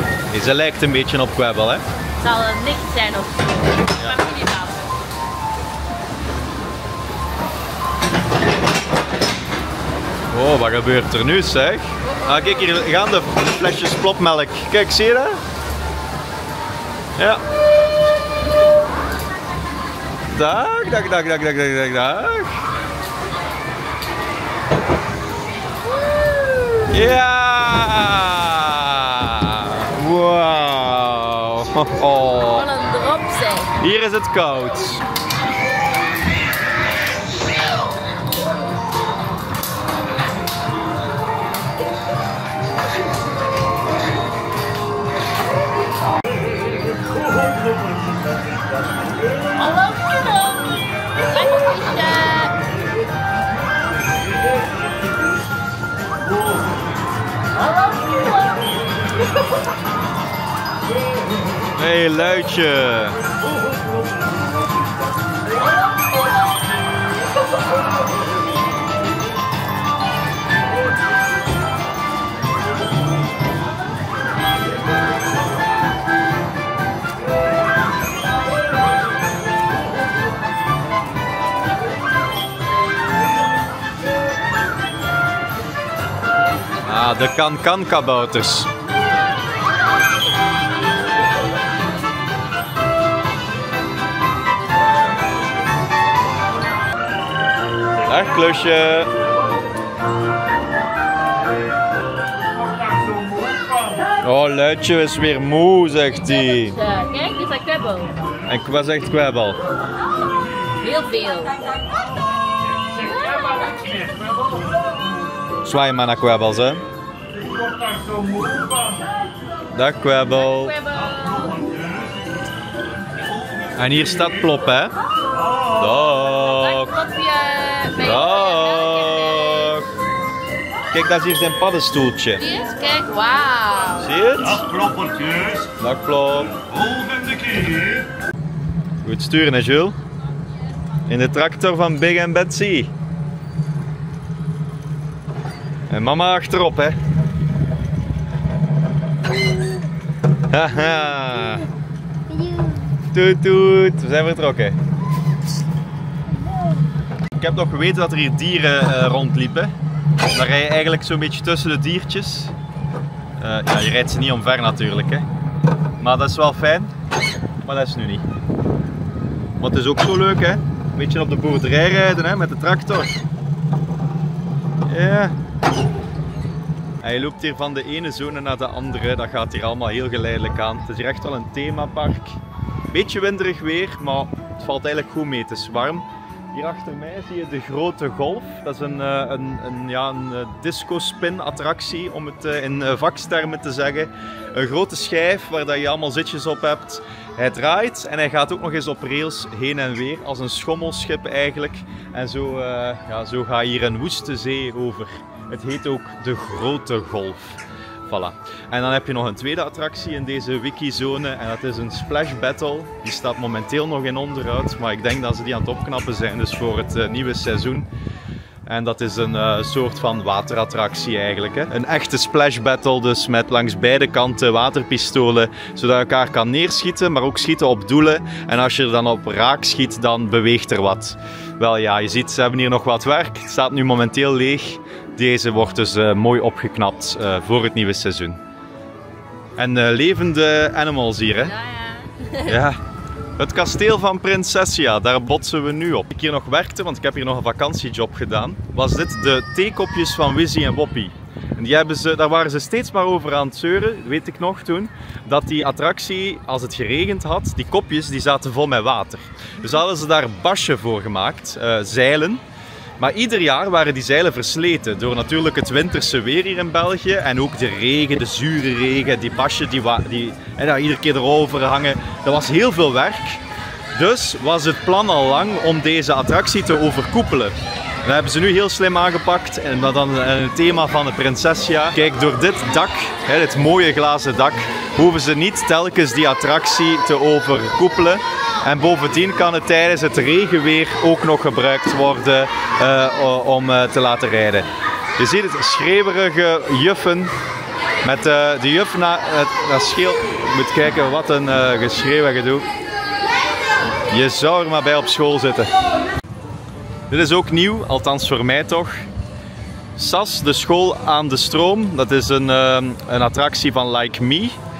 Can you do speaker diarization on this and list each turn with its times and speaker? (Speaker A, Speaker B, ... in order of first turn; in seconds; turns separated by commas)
Speaker A: 0.3-1.8, Speaker B: 2.2-5.0, Speaker A: 10.3-15.4, Speaker B: 12.1-12.8, Speaker A: 17.2-17.4, Speaker A: 20.3-22.6, Speaker B: 26.1-26.8, Speaker A: 26.9-32.6, Speaker B: 32.3-33.7, Speaker A: 33.8-35.0, Speaker B: 49.6-50.3, Speaker B: 51.3-52.5, Speaker A: 61.8-63.2, Speaker A: 86.8-88.7, Speaker A: 98.1-99.1, Speaker A: 104.2-106.8, Speaker B: 106.1-108.2, Speaker A: 108.5-109.6, Speaker B: 110.8-111.6, Speaker B: 113.0-114.2, Speaker A: 115.6-116.8, Speaker A: 119.7-120.7, Speaker B: 120.3-121.7, Speaker A: 123.8-124.9, Speaker A: 125.7-126.9, Speaker B: 126.1-129.8, Speaker A: 128.0-129.9, Speaker A: 130.9-132.4, Speaker B: 132.4-134.1, Speaker A: 134.0-134.7, Speaker C: 134.7-135.5, Speaker A: 135.8-136.6, Speaker C: 136.8-137.9, Speaker A: 139.0-139.9, Speaker A: 141.1-142.9, Speaker A: 145.9-147.0, Speaker A: 150.5-151.6, Speaker A: 153.1-154.8, Speaker A: 157.4-159.7, Speaker A: 160.3-162.5, Speaker A: 163.4-165.3, Speaker A: 166.0-166.9, Speaker A: 167.6-168.3, Speaker A: 169.6-173.1, Speaker A: 174.9-175.3, Speaker A: 177.0-182.4, Speaker A: 182.9-217.9, Speaker A: 218.7-238.4, Speaker A: 239.6-241.5, Speaker B: 241.4-242.6, Speaker A: 242.5-242.8, Speaker A: 243.4-262.4, Speaker A: 263.0-273.4, Speaker A: 273.9-294.7, Speaker A: 295.2-297.3, Speaker A: 298.0-302.7, Speaker A: 304.1-305.7, Speaker A: 307.1-309.1, Speaker A: 310.0-314.6